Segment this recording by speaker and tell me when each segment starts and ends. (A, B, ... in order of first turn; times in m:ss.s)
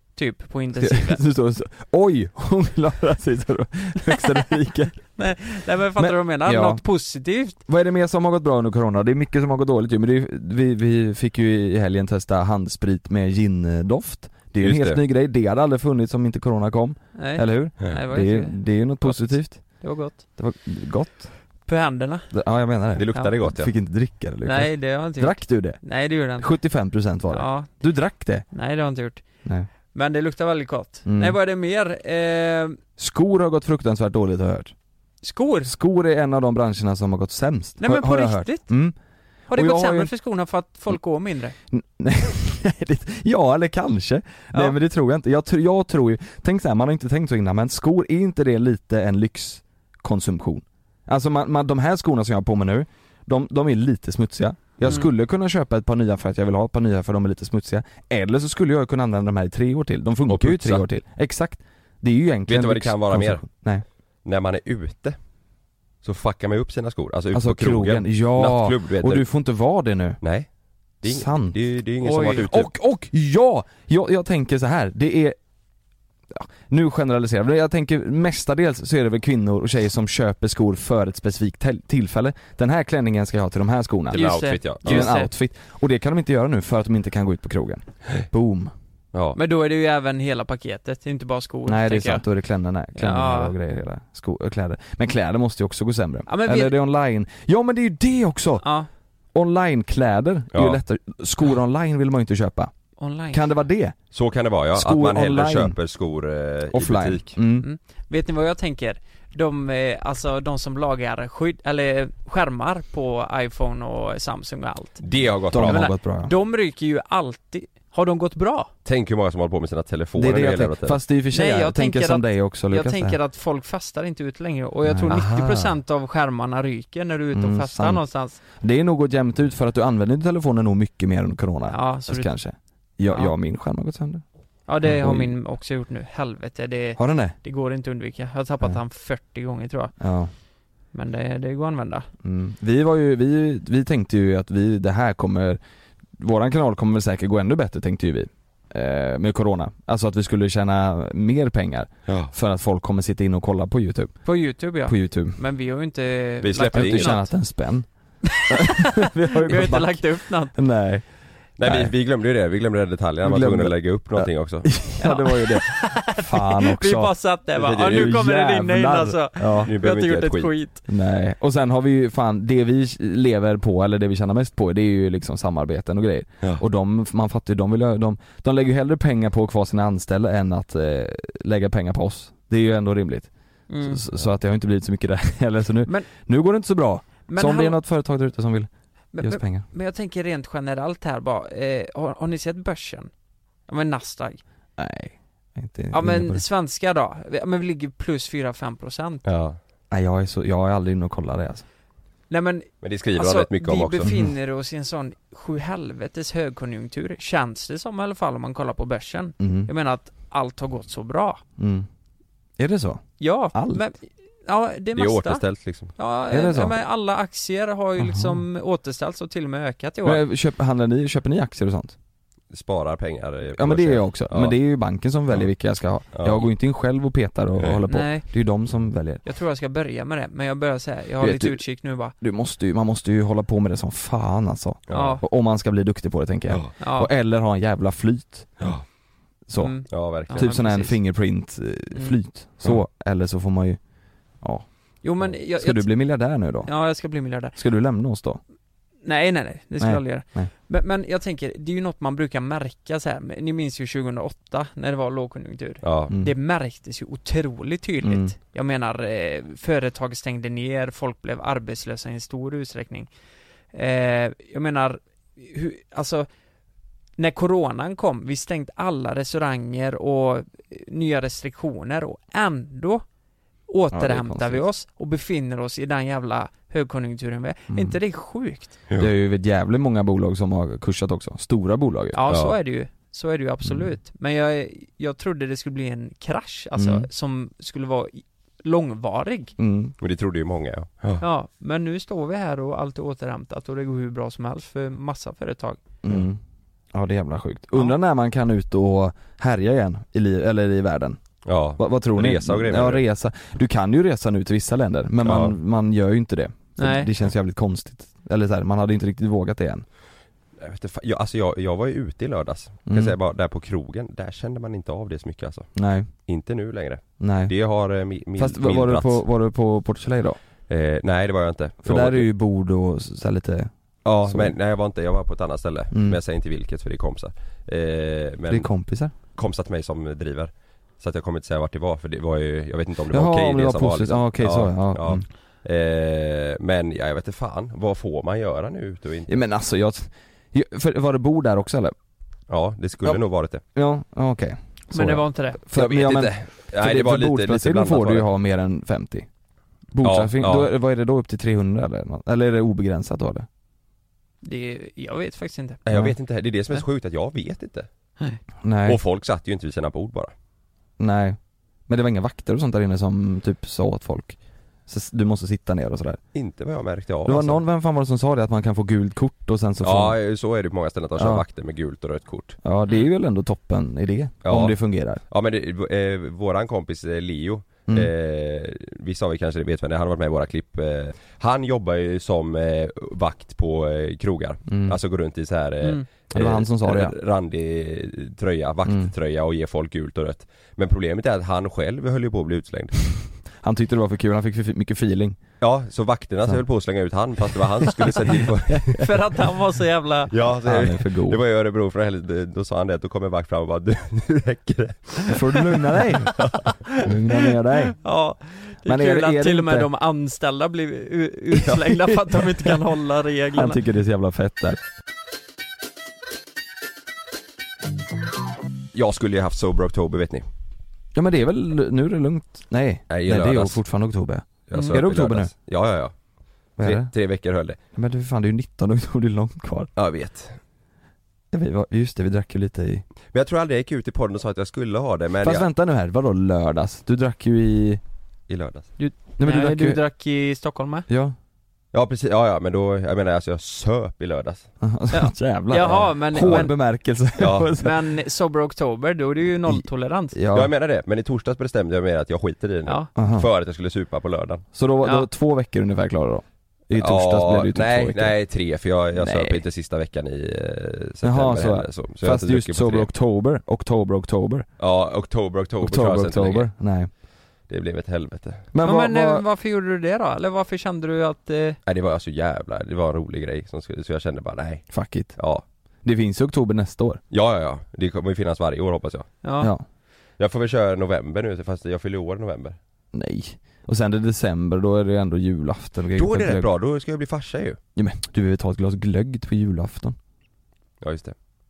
0:00.2-0:01.2 A
0:00.8-0:05.0 B
0:05.2-0:07.6 A
0:06.0-0:06.8 B
0:07.7-0:19.7 B
0:14.6-0:15.0 C
0:17.2-0:20.2 A
0:20.4-0:21.3 B
0:21.7-0:22.3 A
0:22.3-0:25.8 B
0:23.0-0:23.7 C
0:24.4-0:26.5 A
0:26.4-0:28.4 B
0:27.3-0:27.7 A
0:28.5-0:29.2 A
0:29.9-0:32.8 A
0:31.0-0:31.4 B
0:33.0-0:34.7 B
0:35.2-0:35.7 A
0:35.6-0:39.0 B
0:37.8-0:38.7 A
0:39.5-0:41.6 A
0:39.5-0:40.1 B
0:41.7-1:03.8 B
1:00.3-1:00.8 C
1:02.5-1:03.5 C
1:04.2-1:05.2 C
1:06.0-1:09.2 C
1:07.3-1:10.2 B
1:10.2-1:10.5 C
1:11.0-1:12.7 C
1:11.0-1:11.6 B
1:12.0-1:12.4 A
1:12.1-1:15.4 B
1:16.3-1:28.7 B
1:24.1-1:25.1 C
1:24.1-1:25.3 A
1:29.4-1:32.2 A
1:31.6-1:38.6 B
1:33.0-1:33.5 A
1:36.3-1:36.8 A
1:38.6-1:38.9 A
1:39.3-1:42.7 B
1:40.5-1:40.8 C
1:43.0-1:43.4 A
1:43.3-1:44.0 B
1:44.1-1:47.3 C
1:44.7-1:45.8 B
1:46.7-1:47.6 B
1:47.6-1:55.0 A
1:55.0-1:55.8 C
1:55.5-1:56.3 B
1:55.6-1:58.7 A
1:58.8-2:01.0 C
2:00.2-2:03.2 B
2:01.3-2:08.4 A
2:04.8-2:05.2 B
2:05.1-2:05.7 C
2:07.3-2:08.0 B
2:08.6-2:14.2 B
2:11.7-2:12.3 A
2:13.1-2:13.3 A
2:14.7-2:19.9 A
2:14.8-2:15.3 B
2:17.0-2:17.4 B
2:20.0-2:20.3 B
2:20.9-2:22.1 A
2:22.2-2:25.6 B
2:26.2-2:34.2 B
2:34.2-2:37.2 A
2:34.8-2:35.4 B
2:36.4-2:37.2 C
2:36.7-2:37.9 B
2:38.5-2:41.0 B
2:39.4-2:40.5 A
2:41.6-2:44.7 C
2:41.6-2:41.9 B
2:43.2-2:47.1 B
2:45.0-2:50.8 A
2:47.6-2:48.2 C
2:47.8-2:49.7 B
2:49.6-2:50.5 C
2:50.9-3:03.3 B
3:03.7-3:04.0 A
3:03.8-3:09.6 B
3:07.3-3:07.8 A
3:09.1-3:13.1 A
3:13.7-3:14.4 A
3:14.8-3:16.4 B
3:15.9-3:19.2 A
3:19.2-3:19.6 C
3:19.9-3:21.6 B
3:22.3-3:31.4 A
3:22.8-3:24.1 C
3:24.0-3:24.3 B
3:29.4-3:29.7 B
3:31.6-3:31.9 B
3:32.6-3:33.8 B
3:33.2-3:35.4 A
3:35.0-3:35.9 C
3:36.0-3:40.2 A
3:36.3-3:36.8 B
3:38.0-3:38.4 B
3:40.0-3:41.9 B
3:42.5-3:44.5 C
3:43.6-3:49.2 B
3:46.1-3:46.4 C
3:47.9-3:48.3 A
3:49.2-3:52.1 A
3:51.2-3:58.6 B
3:54.9-3:55.2 C
3:54.9-3:55.2 A
3:56.8-3:57.1 A
3:59.5-4:03.8 B
3:59.6-4:01.0 A
3:59.9-4:00.5 C
4:05.0-4:05.9 A
4:05.2-4:06.7 B
4:06.6-4:07.6 A
4:07.6-4:08.4 B
4:09.0-4:23.1 A
4:09.8-4:10.5 B
4:15.8-4:16.1 C
4:18.0-4:18.3 B
4:23.7-4:26.3 A
4:27.2-4:33.0 A
4:33.7-4:38.8 A
4:33.9-4:34.6 B
4:37.7-4:38.0 B
4:39.0-4:42.2 B
4:42.1-4:49.5 A
4:42.3-4:42.5 C
4:43.6-4:43.9 B
4:46.8-4:47.1 B
4:49.6-4:49.9 B
4:50.0-4:51.2 C
4:51.2-4:55.8 A
4:56.0-4:56.4 B
4:56.9-5:01.2 B
5:01.4-5:03.0 C
5:01.8-5:09.8 B
5:05.2-5:05.5 C
5:06.8-5:07.1 A
5:10.6-5:15.7 C
5:12.9-5:13.2 B
5:15.7-5:16.1 B
5:16.3-5:19.2 C
5:17.2-5:17.5 B
5:18.4-5:20.4 B
5:20.7-5:22.3 C
5:21.8-5:23.7 B
5:24.0-5:28.7 C
5:24.2-5:24.5 B
5:25.9-5:26.2 B
5:28.5-5:29.1 B
5:29.3-5:39.4 C
5:33.1-5:35.2 B
5:39.3-5:41.9 B
5:42.5-5:43.6 C
5:43.7-5:49.3 B
5:44.9-5:45.6 A
5:45.7-5:48.3 C
5:49.9-5:53.5 B
5:50.0-5:50.7 C
5:54.4-5:55.8 A
5:55.8-5:57.9 C
5:58.6-5:59.0 B
5:58.8-6:00.3 C
6:01.0-6:06.2 B
6:06.3-6:07.6 C
6:07.2-6:10.2 B
6:09.8-6:12.6 C
6:11.2-6:11.4 B
6:12.6-6:15.2 B
6:14.4-6:14.7 C
6:15.3-6:33.0 C
6:24.7-6:25.0 B
6:26.3-6:27.1 B
6:28.8-6:29.1 B
6:33.6-6:35.4 B
6:35.6-6:39.1 C
6:38.8-6:39.0 B
6:39.0-6:40.3 A
6:40.3-6:45.4 C
6:40.6-6:41.4 B
6:45.3-6:46.4 B
6:46.3-6:46.7 C
6:47.0-6:48.0 B
6:48.0-6:53.8 A
6:48.8-6:49.9 B
6:51.7-6:52.0 B
6:53.5-6:54.8 B
6:58.9-7:00.4 C
7:01.1-7:05.5 B
7:03.1-7:03.8 C
7:04.7-7:06.1 C
7:06.8-7:07.1 B
7:06.8-7:07.8 C
7:08.0-7:09.9 B
7:10.0-7:10.6 C
7:11.5-7:13.0 B
7:13.3-7:15.7 C
7:15.4-7:18.0 B
7:18.5-7:18.9 C
7:19.0-7:21.1 A
7:19.4-7:20.0 B
7:21.1-7:21.4 B
7:21.9-7:24.7 C
7:24.8-7:28.0 B
7:25.1-7:26.7 A
7:26.4-7:26.6 C
7:27.4-7:27.7 C
7:27.8-7:30.4 A
7:29.6-7:30.7 B
7:30.5-7:34.6 C
7:33.2-7:33.5 B
7:34.7-7:38.4 B
7:35.0-7:35.3 A
7:36.9-7:43.1 C
7:39.2-7:39.6 B
7:41.2-7:44.6 B
7:44.8-7:46.7 C
7:45.8-7:47.1 B
7:47.7-7:48.7 C
7:48.7-7:49.4 B
7:48.8-7:51.8 A
7:51.8-7:55.6 C
7:54.9-7:55.4 B
7:56.0-7:57.2 B
7:57.3-7:59.3 C
7:59.4-7:59.7 A
8:00.4-8:02.8 C
8:03.1-8:06.7 B
8:06.1-8:07.8 C
8:08.0-8:10.2 B
8:11.0-8:11.3 C